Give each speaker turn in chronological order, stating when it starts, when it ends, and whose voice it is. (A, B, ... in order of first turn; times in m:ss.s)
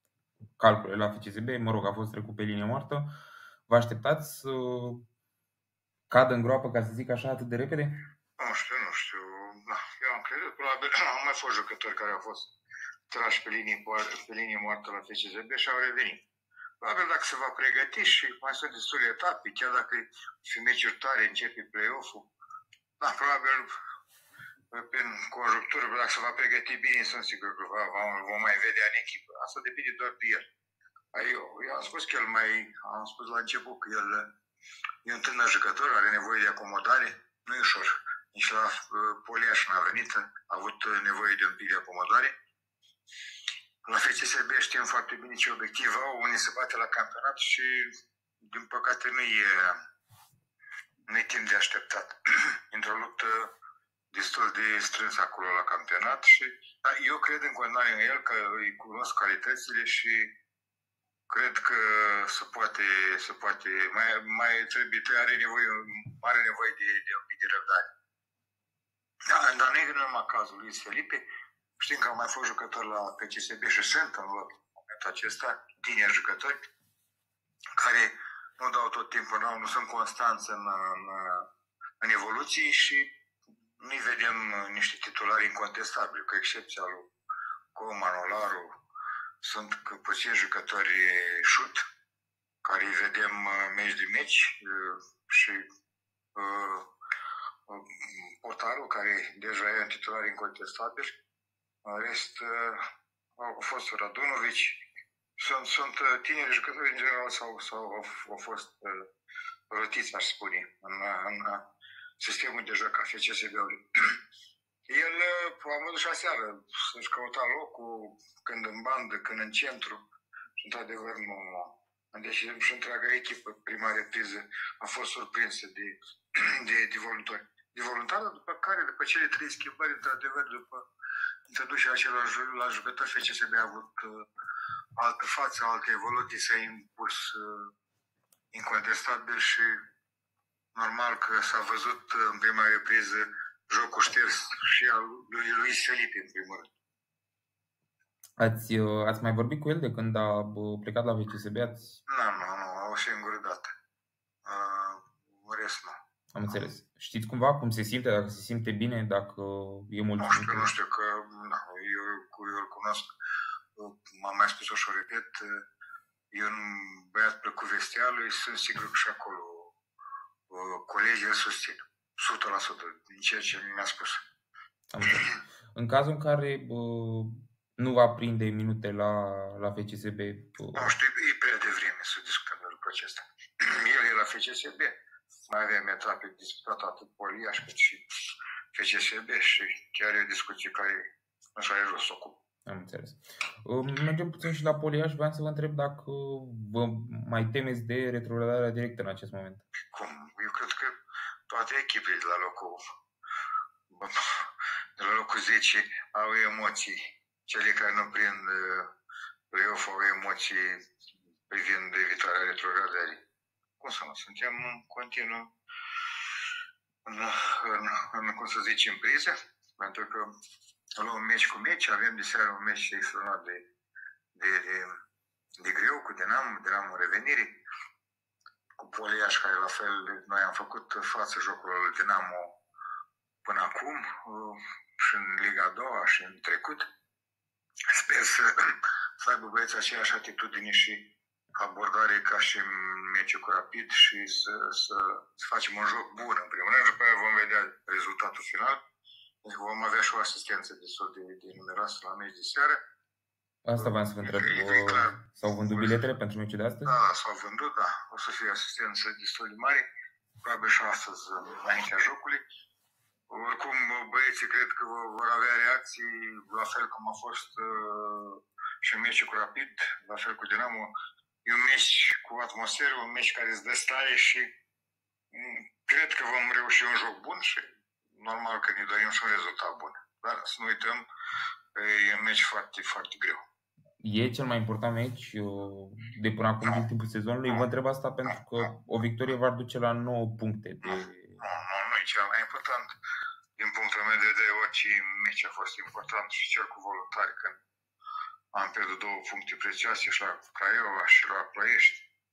0:00.6-0:03.1 A
0:03.7-0:05.0 A
0:06.1-0:08.0 A
0:08.4-0:12.5 B
0:13.1-0:16.2 B
0:16.8-0:22.3 B
0:23.0-0:23.7 B
0:24.7-0:30.4 B
0:31.1-0:34.3 B
0:35.0-0:42.3 B
0:43.9-0:47.9 B
0:48.4-0:49.8 B
0:51.1-0:52.2 B
0:52.7-0:53.5 B
0:54.1-1:00.3 B
1:01.3-1:07.9 B
1:09.3-1:11.2 B
1:11.8-1:16.6 B
1:17.8-1:21.5 B
1:22.0-1:23.1 B
1:23.8-1:27.1 B
1:27.7-1:28.7 B
1:29.4-1:31.8 B
1:32.6-1:35.6 B
1:36.3-1:36.8 B
1:37.7-1:41.1 B
1:41.8-1:42.8 B
1:43.4-1:44.8 B
1:45.4-1:49.0 B
1:49.7-1:51.6 B
1:52.2-1:54.1 B
1:54.9-2:00.0 B
2:00.6-2:10.8 B
2:11.5-2:14.2 B
2:15.0-2:17.7 B
2:18.5-2:19.7 B
2:20.8-2:26.7 B
2:28.4-2:32.0 A
2:32.1-2:33.7 B
2:34.4-2:36.0 B
2:36.3-2:40.7 A
2:40.2-2:43.1 B
2:43.8-2:45.6 B
2:46.3-2:49.8 B
2:50.5-2:54.2 B
2:54.9-3:00.9 A
3:00.7-3:05.0 B
3:05.5-3:08.0 B
3:08.7-3:11.0 B
3:11.6-3:12.4 B
3:12.7-3:19.6 A
3:19.9-3:21.0 B
3:21.5-3:22.9 B
3:23.9-3:28.9 B
3:29.5-3:30.8 B
3:31.5-3:33.2 B
3:33.8-3:35.5 B
3:37.0-3:40.3 B
3:41.0-3:43.7 B
3:44.3-3:44.9 B
3:45.6-3:47.6 B
3:48.8-3:52.6 B
3:53.4-3:56.9 B
3:57.9-4:08.8 B
4:09.4-4:12.8 B
4:13.6-4:16.9 A
4:13.8-4:16.0 B
4:16.8-4:19.9 B
4:20.4-4:22.4 B
4:23.3-4:30.9 B
4:31.4-4:34.5 B
4:35.3-4:41.0 B
4:41.8-4:43.4 B
4:44.0-4:51.4 A
4:48.2-4:48.7 B
4:50.8-4:52.9 B
4:53.6-4:57.6 B
4:58.5-5:02.1 B